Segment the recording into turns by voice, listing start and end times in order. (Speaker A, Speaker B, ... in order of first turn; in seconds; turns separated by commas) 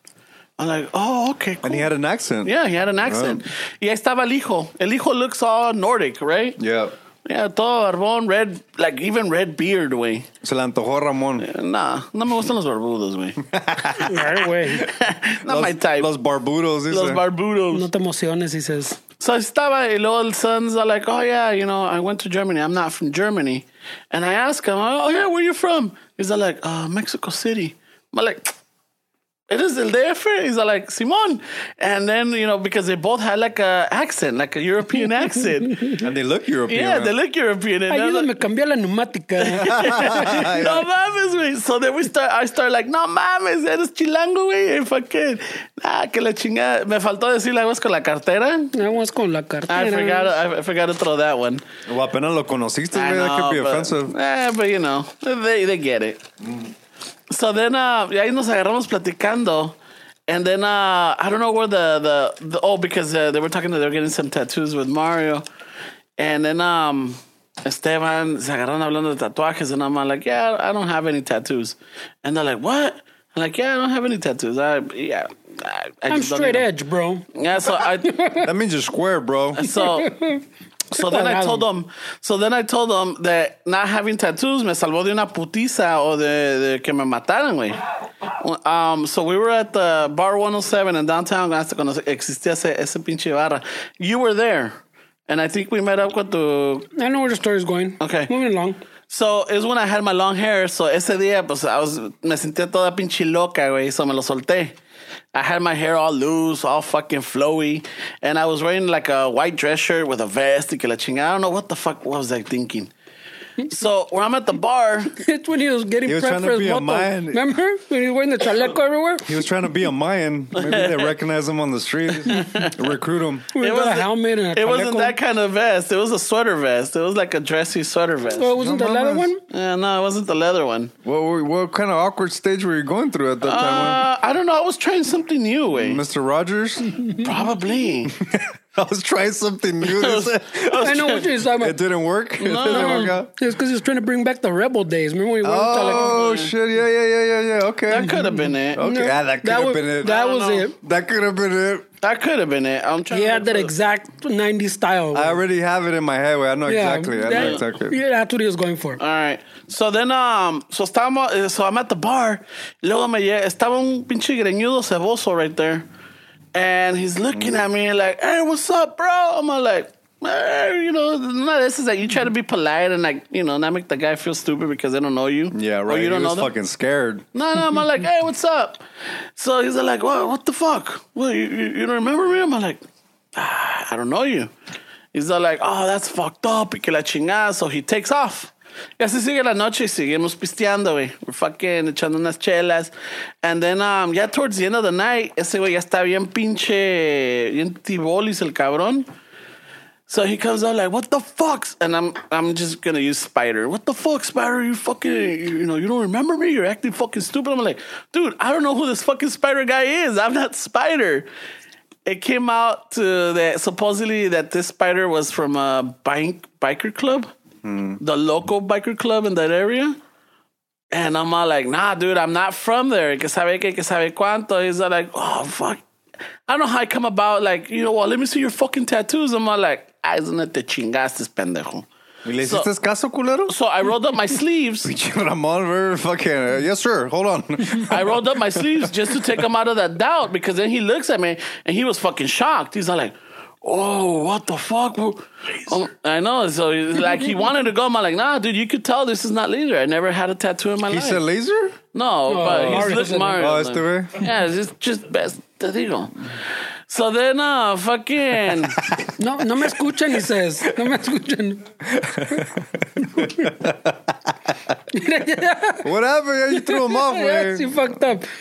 Speaker A: 0.6-1.9, Speaker B: 1.6-3.4, Speaker A: 2.4-6.6, Speaker B: 6.6-6.9, Speaker A: 7.3-10.3, Speaker B: 10.4-11.5, Speaker A: 11.4-13.4, Speaker B: 13.4-14.3, Speaker C: 14.0-14.9, Speaker A: 14.7-16.1, Speaker B: 15.5-17.2, Speaker A: 16.9-17.9, Speaker C: 17.7-19.0, Speaker A: 19.2-28.5, Speaker A: 29.5-36.0, Speaker B: 36.0-37.1, Speaker A: 36.7-38.3, Speaker C: 37.9-40.4, Speaker A: 39.4-48.7, Speaker B: 39.8-40.9, Speaker C: 48.7-50.4, Speaker A: 49.7-51.6, Speaker B: 51.9-54.1, Speaker A: 52.9-56.2, Speaker A: 57.3-59.8, Speaker A: 60.3-65.4, Speaker A: 66.2-76.7, Speaker C: 76.1-78.5, Speaker A: 77.3-78.2, Speaker B: 78.4-79.7, Speaker A: 79.6-80.1, Speaker C: 79.7-81.7, Speaker A: 80.9-87.8, Speaker A: 88.4-94.8, Speaker A: 95.3-96.9, Speaker C: 97.0-98.8, Speaker A: 98.0-98.3, Speaker A: 99.1-104.8, Speaker A: 105.3-112.9, Speaker A: 113.6-115.1, Speaker C: 115.1-119.4, Speaker B: 116.0-117.5, Speaker B: 119.2-123.5, Speaker A: 120.5-121.1, Speaker A: 122.2-122.9, Speaker C: 123.5-125.2, Speaker A: 123.6-128.5, Speaker C: 128.3-129.4, Speaker B: 128.6-129.3, Speaker A: 129.5-130.9, Speaker B: 131.0-134.1, Speaker A: 133.4-136.0, Speaker B: 135.8-137.0, Speaker A: 137.2-138.1, Speaker B: 138.1-141.0, Speaker A: 139.8-141.3, Speaker C: 140.8-141.8, Speaker B: 141.5-143.3, Speaker A: 142.4-143.2, Speaker C: 142.6-146.2, Speaker B: 145.4-148.2, Speaker A: 145.8-146.5, Speaker A: 147.9-148.8, Speaker C: 147.9-150.8, Speaker B: 148.7-150.1, Speaker A: 150.0-150.7, Speaker B: 150.8-151.9, Speaker A: 152.0-153.7, Speaker C: 153.1-155.4, Speaker B: 155.1-157.9, Speaker C: 156.7-159.0, Speaker A: 157.3-157.6, Speaker A: 159.0-165.9, Speaker A: 166.5-176.5, Speaker B: 175.5-177.2, Speaker A: 177.3-178.8, Speaker A: 179.4-182.8, Speaker A: 183.3-184.5, Speaker A: 185.1-199.1, Speaker A: 200.1-211.3, Speaker A: 212.1-217.3, Speaker B: 217.6-218.0, Speaker A: 218.0-220.0, Speaker A: 220.9-225.8, Speaker A: 226.5-231.9, Speaker B: 232.2-233.5, Speaker A: 232.4-232.7, Speaker A: 233.5-234.9, Speaker B: 234.8-239.4, Speaker A: 237.7-251.2, Speaker B: 250.9-251.8, Speaker A: 251.9-256.3, Speaker C: 252.3-253.5, Speaker B: 252.4-254.3, Speaker A: 256.9-258.8, Speaker C: 259.2-261.7, Speaker B: 261.9-264.0, Speaker C: 263.0-263.5, Speaker C: 264.9-265.9, Speaker B: 265.8-268.0, Speaker C: 266.5-268.3